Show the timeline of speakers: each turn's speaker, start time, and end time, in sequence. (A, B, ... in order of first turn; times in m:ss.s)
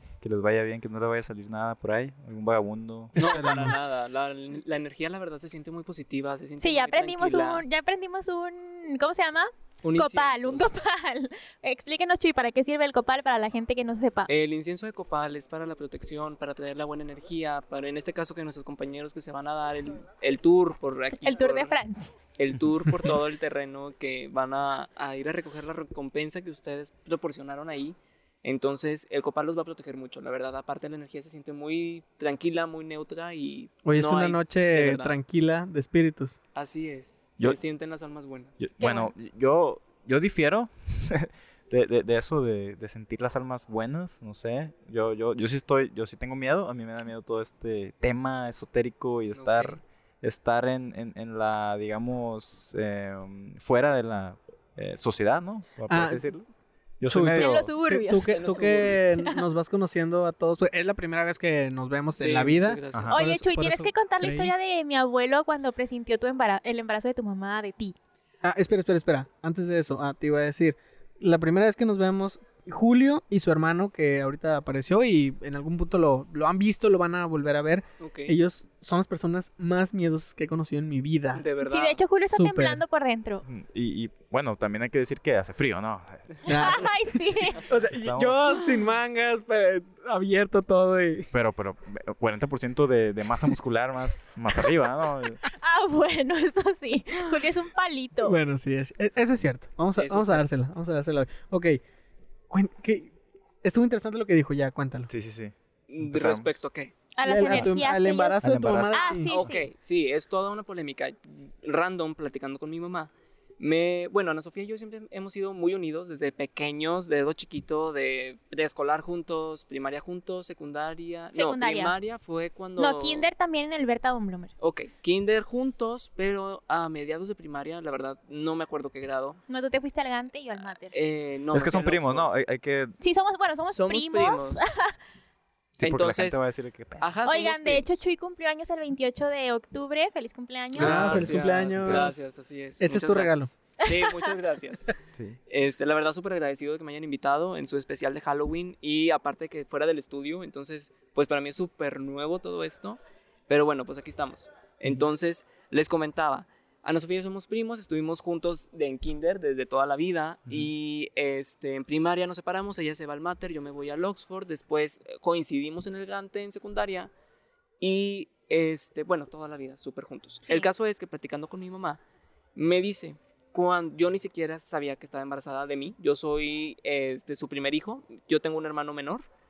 0:00.2-0:03.2 A
0:03.2-0:03.8 B
0:03.2-0:07.6 C
0:06.6-0:14.3 D
0:09.8-0:10.7 C
0:14.3-0:21.8 C
0:21.1-0:22.1 D
0:22.4-0:35.2 C
0:33.9-0:36.4 B
0:36.6-0:38.6 C
0:38.6-0:56.5 A
0:38.8-0:39.1 D
0:49.3-0:49.8 C
0:55.9-0:56.2 B
0:57.0-0:57.7 A
0:57.1-1:04.5 B
0:57.4-0:58.4 D
0:58.3-0:59.1 C
0:59.1-0:59.4 D
1:02.1-1:03.2 C
1:02.9-1:03.2 A
1:03.1-1:08.0 D
1:08.4-1:21.4 B
1:18.0-1:18.4 C
1:21.3-1:22.0 C
1:21.6-1:23.5 D
1:22.2-1:22.8 B
1:23.5-1:26.8 A
1:26.5-1:26.9 B
1:26.5-1:27.6 D
1:27.6-1:31.3 B
1:27.9-1:28.6 A
1:31.3-1:35.4 A
1:35.6-1:38.4 D
1:38.2-1:41.8 B
1:40.0-1:40.4 C
1:42.5-1:45.1 B
1:45.1-1:46.6 A
1:45.9-1:46.9 C
1:47.2-1:49.7 D
1:47.2-1:49.3 B
1:47.5-1:47.7 A
1:48.4-1:49.5 A
1:49.3-2:03.3 C
2:01.3-2:02.0 D
2:02.8-2:04.5 D
2:04.6-2:09.4 C
2:09.5-2:11.0 D
2:10.9-2:12.3 C
2:11.5-2:13.0 A
2:13.0-2:15.0 D
2:13.7-2:14.6 C
2:15.8-2:17.1 A
2:15.8-2:16.4 C
2:17.0-2:18.0 C
2:17.2-2:21.2 D
2:20.8-2:22.1 A
2:20.8-2:22.1 B
2:20.8-2:24.9 C
2:22.8-2:23.5 B
2:23.8-2:24.3 D
2:25.5-2:47.1 C
2:47.8-2:52.0 C
2:52.6-2:59.2 C